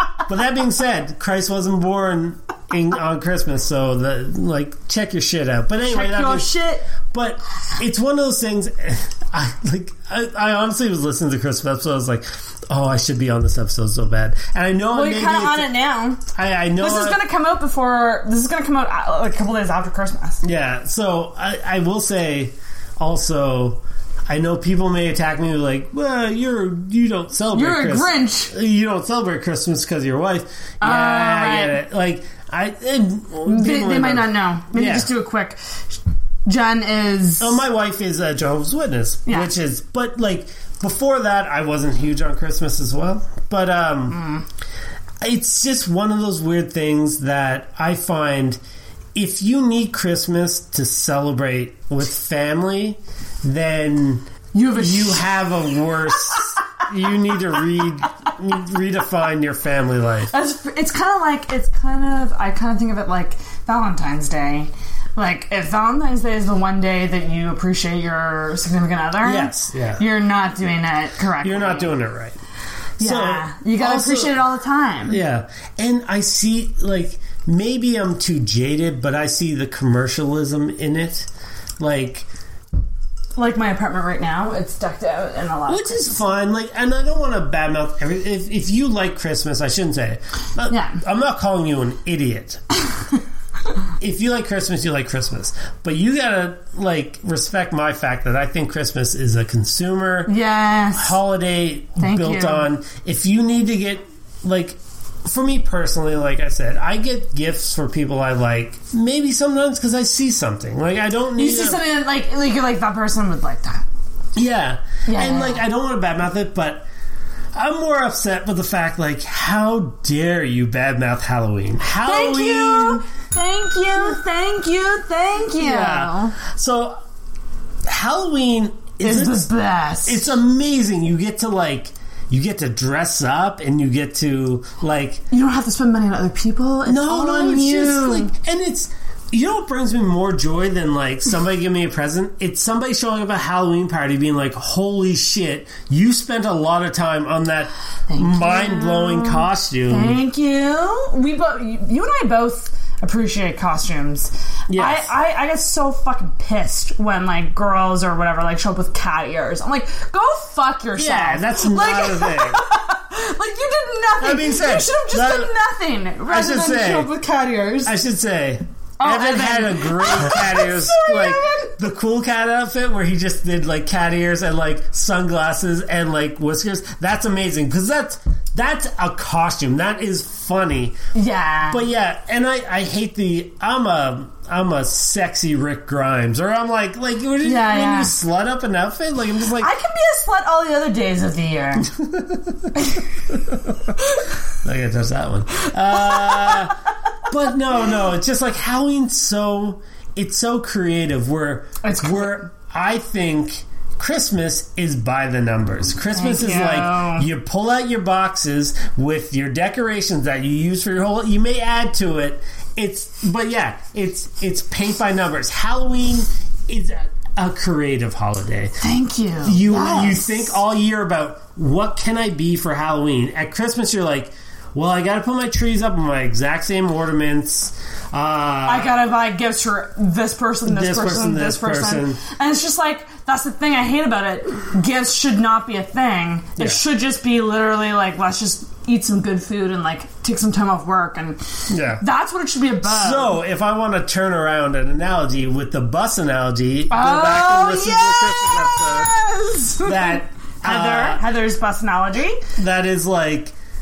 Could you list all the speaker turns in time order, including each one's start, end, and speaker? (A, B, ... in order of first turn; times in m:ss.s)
0:00.3-0:06.5 A
0:05.8-0:06.9 B
0:07.1-0:15.8 A
0:14.9-0:16.2 B
0:16.4-0:17.2 A
0:16.8-0:20.4 B
0:20.4-0:35.1 A
0:27.5-0:28.5 B
0:30.8-0:31.8 B
0:33.4-0:35.6 B
0:36.4-0:37.6 B
0:37.4-0:44.2 A
0:39.3-0:39.5 B
0:44.1-0:44.4 B
0:45.2-0:48.6 A
0:49.2-1:00.3 A
0:54.5-0:55.3 B
1:00.3-1:12.0 B
1:09.2-1:10.1 A
1:11.4-1:12.4 A
1:13.0-1:15.2 B
1:13.0-1:14.4 A
1:15.1-1:22.3 A
1:23.4-1:26.3 B
1:25.7-1:32.6 A
1:30.7-1:31.0 B
1:34.0-1:40.3 A
1:40.3-1:41.2 B
1:41.0-1:51.8 A
1:42.0-1:42.7 B
1:51.4-1:53.9 B
1:54.4-1:56.9 A
1:55.0-1:55.6 B
1:57.5-2:03.0 A
2:02.0-2:06.4 B
2:05.6-2:07.0 A
2:07.9-2:09.5 A
2:09.0-2:10.3 B
2:10.0-2:15.2 A
2:15.3-2:18.3 B
2:16.9-2:30.2 A
2:28.1-2:47.9 B
2:34.7-2:35.1 A
2:41.0-2:42.6 A
2:44.2-2:45.6 A
2:46.2-2:47.1 A
2:47.8-3:01.0 A
2:49.0-2:51.8 B
3:01.1-3:01.9 B
3:01.7-3:09.8 A
3:07.4-3:08.1 B
3:09.6-3:11.9 B
3:11.8-3:12.6 A
3:14.6-3:16.8 A
3:15.9-3:16.7 B
3:17.3-3:38.8 A
3:21.8-3:22.5 B
3:26.1-3:27.3 B
3:38.8-3:40.6 B
3:39.4-3:49.1 A
3:48.6-4:03.4 B
3:50.6-3:52.2 A
3:56.6-3:56.8 A
4:01.7-4:02.0 A
4:02.8-4:09.1 A
4:06.9-4:12.4 B
4:09.8-4:11.3 A
4:12.6-4:13.5 A